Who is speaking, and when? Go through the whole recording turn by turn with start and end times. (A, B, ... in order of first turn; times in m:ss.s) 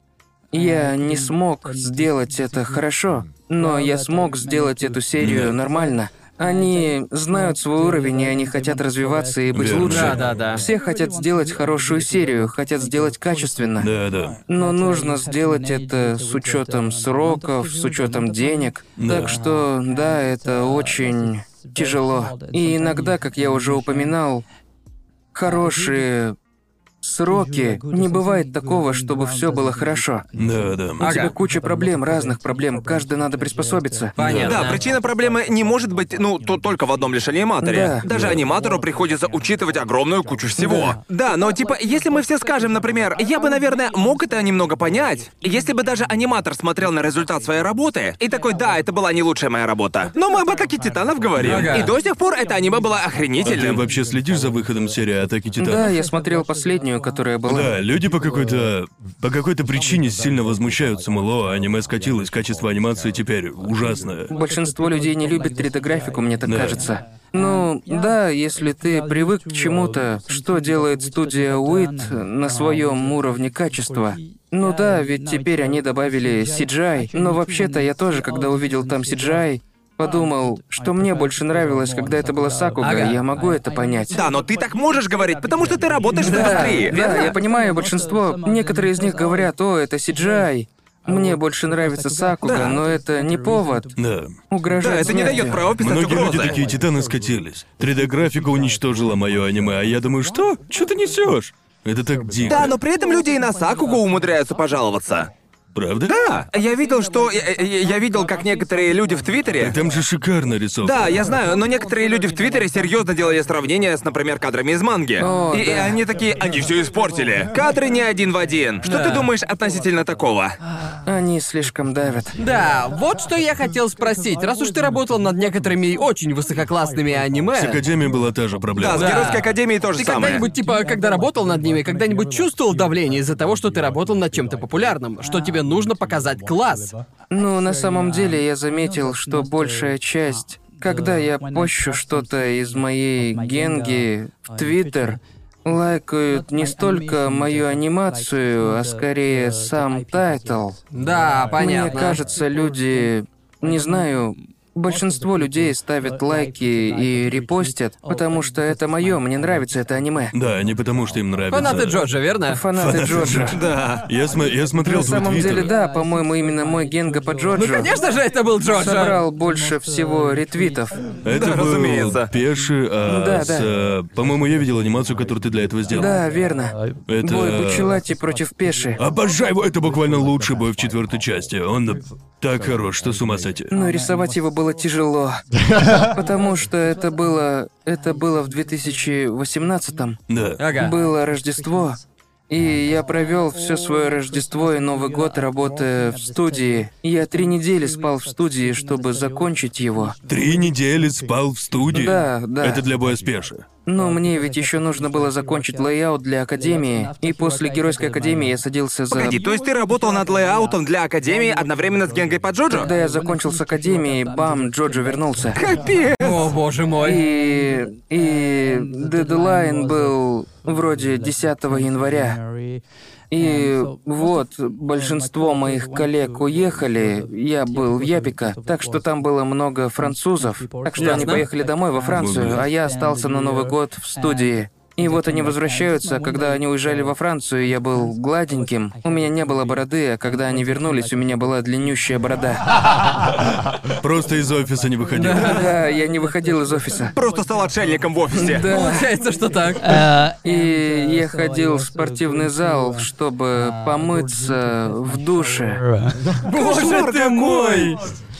0:00.5-0:13.9 A
0:05.2-0:05.6 B
0:09.5-0:10.2 B
0:09.9-0:10.6 C
0:13.8-0:14.4 B
0:14.5-0:24.4 A
0:19.0-0:19.4 B
0:25.3-0:26.4 A
0:27.0-0:30.2 A
0:30.4-0:31.0 B
0:31.0-0:34.4 A
0:31.0-0:31.3 C
0:34.2-0:34.8 C
0:34.2-0:34.5 B
0:34.4-0:53.8 D
0:37.6-0:38.0 A
0:38.0-0:38.4 B
0:40.6-0:41.0 A
0:51.4-0:51.8 B
0:51.4-0:51.9 C
0:53.4-0:55.9 B
0:55.6-0:57.7 A
0:57.5-1:04.3 B
1:04.3-1:24.2 A
1:06.4-1:06.8 B
1:22.8-1:23.2 C
1:24.1-1:27.4 D
1:26.1-1:27.0 C
1:26.2-1:33.9 A
1:32.4-1:32.8 D
1:34.0-1:34.4 B
1:34.5-1:35.6 A
1:34.8-1:36.6 D
1:35.8-1:42.8 B
1:42.5-1:45.3 D
1:45.7-1:46.1 B
1:46.1-1:49.8 D
1:49.6-1:51.2 B
1:50.8-2:00.6 D
1:55.2-1:56.0 A
1:58.8-1:59.3 C
2:01.0-2:02.4 A
2:02.4-2:07.8 C
2:07.5-2:09.3 B
2:08.8-2:10.5 D
2:08.9-2:17.0 C
2:17.3-2:30.8 A
2:30.9-2:32.2 C
2:31.6-2:40.3 A
2:40.3-2:42.0 B
2:41.5-2:42.6 C
2:42.5-2:43.6 A
2:42.7-2:45.7 B
2:43.5-2:44.0 D
2:44.8-2:47.9 A
2:47.6-2:49.2 C
2:48.8-2:51.0 A
2:51.2-2:56.2 B
2:51.3-2:52.3 D
2:53.1-2:53.7 A
2:55.9-2:59.0 A
2:57.1-2:58.0 B
2:59.0-3:03.7 B
3:03.7-3:05.4 A
3:05.9-3:10.2 A
3:10.3-3:10.6 B
3:10.6-3:11.0 C
3:10.7-3:20.2 A
3:20.3-3:23.6 B
3:21.9-3:22.8 A
3:23.9-3:29.4 A
3:29.1-3:32.9 D
3:32.7-3:35.6 A
3:35.6-3:36.4 D
3:36.2-3:37.2 C
3:37.0-3:42.4 A
3:43.3-4:02.6 A
3:51.0-3:51.5 C
3:52.1-3:52.7 B
4:03.8-4:05.7 B
4:05.2-4:05.6 C
4:05.2-4:07.1 A
4:07.1-4:08.7 D
4:08.3-4:09.1 A
4:08.4-4:10.0 C
4:10.4-4:15.9 A
4:16.4-4:18.0 C
4:16.5-4:18.0 D